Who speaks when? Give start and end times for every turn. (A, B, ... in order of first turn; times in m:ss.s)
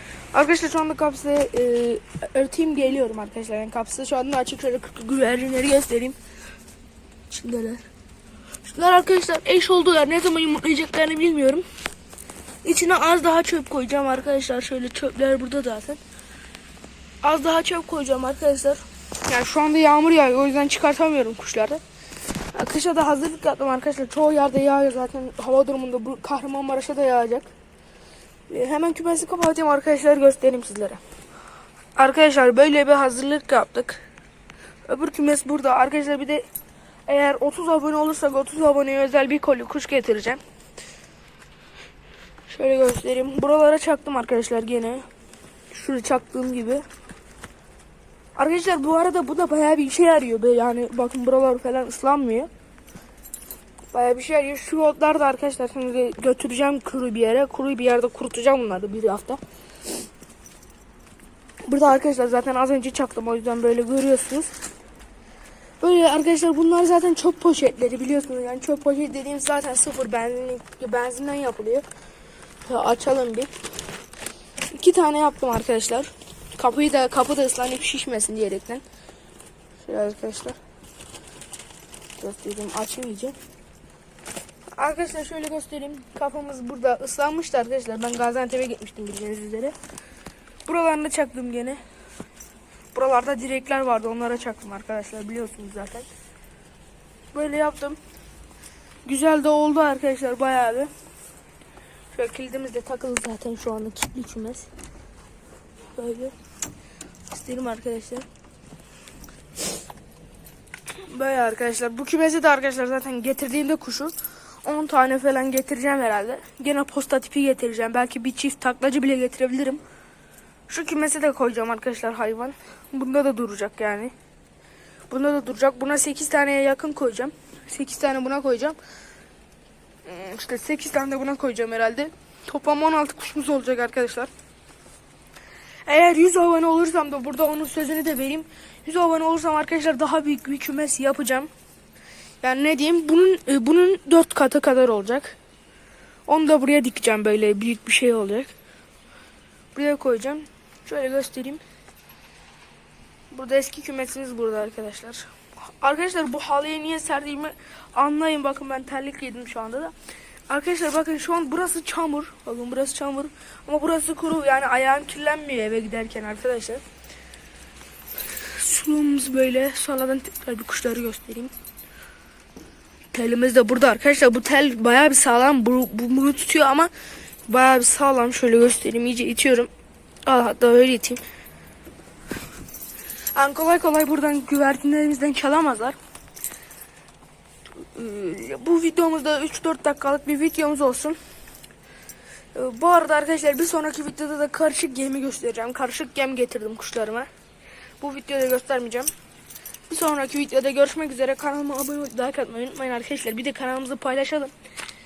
0:00.3-0:06.2 A
0:07.3-0:07.8 A
0:08.6-0:11.6 A
0:12.6-0:16.0 A
0:17.2-0:21.8 A
0:22.5-0:27.5 A
0:28.5-0:31.0 A
0:32.0-0:34.0 A
0:34.9-0:36.4 A
0:37.1-0:40.4 A
0:42.5-0:45.0 A
0:45.7-0:46.8 A
0:48.4-0:52.5 A
0:53.9-0:59.4 A
1:01.7-1:04.5 A
1:05.8-1:11.8 A
1:12.6-1:13.5 A
1:14.7-1:18.8 A
1:19.8-1:20.6 A
1:22.2-1:23.4 A
1:24.8-1:29.8 A
1:30.7-1:31.8 A
1:32.9-1:36.1 A
1:37.3-1:38.0 A
1:39.0-1:40.9 A
1:42.1-1:44.7 A
1:46.0-1:46.3 A
1:47.3-1:48.3 A
1:51.0-1:54.1 A
1:54.6-1:59.8 A
2:00.7-2:04.1 A
2:05.1-2:08.8 A
2:10.0-2:14.3 A
2:15.9-2:21.5 A
2:22.4-2:25.4 A
2:26.3-2:28.5 A
2:29.7-2:31.6 A
2:33.3-2:35.3 A
2:35.8-2:39.9 A
2:40.5-2:46.8 A
2:48.4-2:51.5 A
2:53.1-2:56.9 A
2:57.5-2:59.7 A
3:00.3-3:01.2 A
3:03.4-3:06.0 A
3:07.9-3:11.2 A
3:12.5-3:17.3 A
3:18.0-3:19.1 A
3:19.9-3:24.5 A